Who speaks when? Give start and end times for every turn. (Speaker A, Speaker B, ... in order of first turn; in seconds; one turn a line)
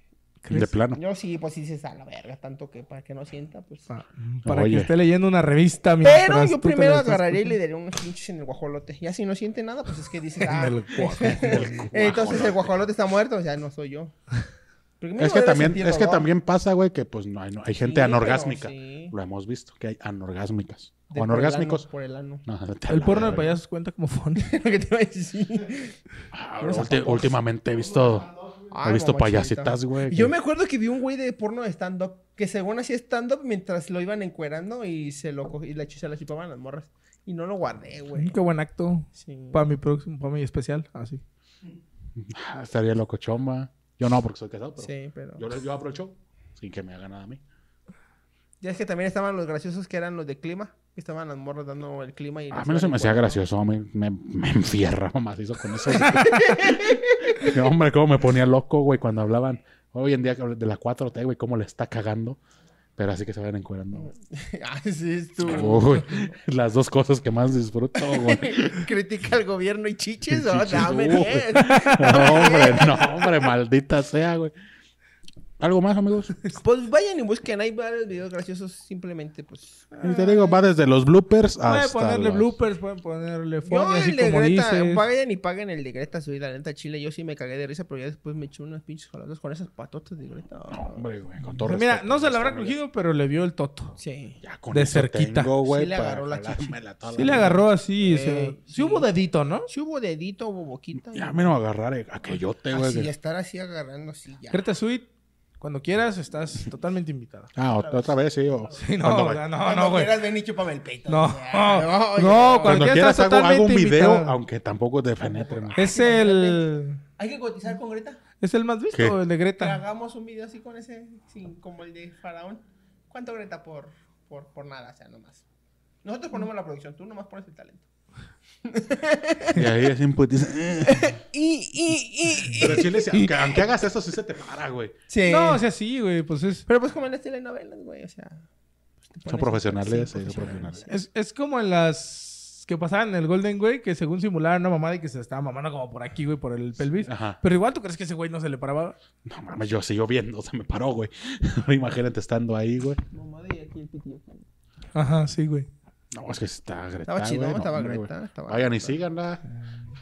Speaker A: 0.4-0.7
Speaker B: 0.5-1.0
Speaker C: 0.9-3.9
Speaker A: 3.9-7.5
Speaker B: 4.4-4.9
Speaker C: 6.0-14.1
Speaker B: 10.5-12.7
Speaker A: 10.6-11.7
Speaker C: 15.0-16.3
Speaker B: 15.2-21.9
Speaker C: 17.8-19.1
Speaker C: 21.1-22.4
Speaker B: 22.4-23.6
Speaker A: 22.9-24.5
Speaker C: 24.4-26.0
Speaker B: 26.3-30.3
Speaker C: 26.6-27.4
Speaker C: 28.7-38.4
Speaker A: 38.1-41.2
Speaker C: 39.2-39.7
Speaker B: 42.2-47.4
Speaker C: 44.8-45.4
Speaker C: 48.6-53.4
Speaker B: 52.5-62.4
Speaker C: 55.9-57.6
Speaker B: 63.0-64.1
Speaker C: 63.9-66.3
Speaker B: 65.4-68.9
Speaker C: 68.0-73.4
Speaker B: 70.3-74.5
Speaker A: 71.6-72.5
Speaker B: 75.6-76.4
Speaker C: 76.5-80.6
Speaker B: 80.0-82.5
Speaker A: 81.6-85.0
Speaker C: 83.7-91.0
Speaker B: 90.7-92.8
Speaker A: 91.6-94.0
Speaker C: 94.0-94.4
Speaker B: 94.4-97.6
Speaker A: 94.7-95.5
Speaker C: 95.6-96.8
Speaker A: 97.1-99.7
Speaker C: 98.0-99.1
Speaker C: 99.7-101.6
Speaker B: 101.1-103.1
Speaker C: 102.7-104.6
Speaker A: 104.5-105.1
Speaker A: 105.6-107.5
Speaker B: 107.5-109.5
Speaker C: 107.7-108.8
Speaker A: 108.8-110.2
Speaker C: 109.5-113.0
Speaker A: 111.1-114.4
Speaker B: 112.6-115.9
Speaker C: 115.3-118.2
Speaker A: 115.8-117.0
Speaker A: 118.4-119.8
Speaker C: 119.6-125.4
Speaker C: 126.0-127.9
Speaker C: 128.6-129.6
Speaker B: 129.5-131.2
Speaker C: 130.8-133.2
Speaker B: 132.6-134.9
Speaker C: 135.1-135.6
Speaker A: 135.2-136.6
Speaker C: 136.7-138.4
Speaker C: 139.1-140.9
Speaker B: 139.2-140.8
Speaker A: 140.9-148.9
Speaker B: 146.9-147.4
Speaker B: 149.2-153.0
Speaker C: 153.1-154.4
Speaker A: 154.9-155.7
Speaker B: 156.1-159.4
Speaker C: 157.1-159.0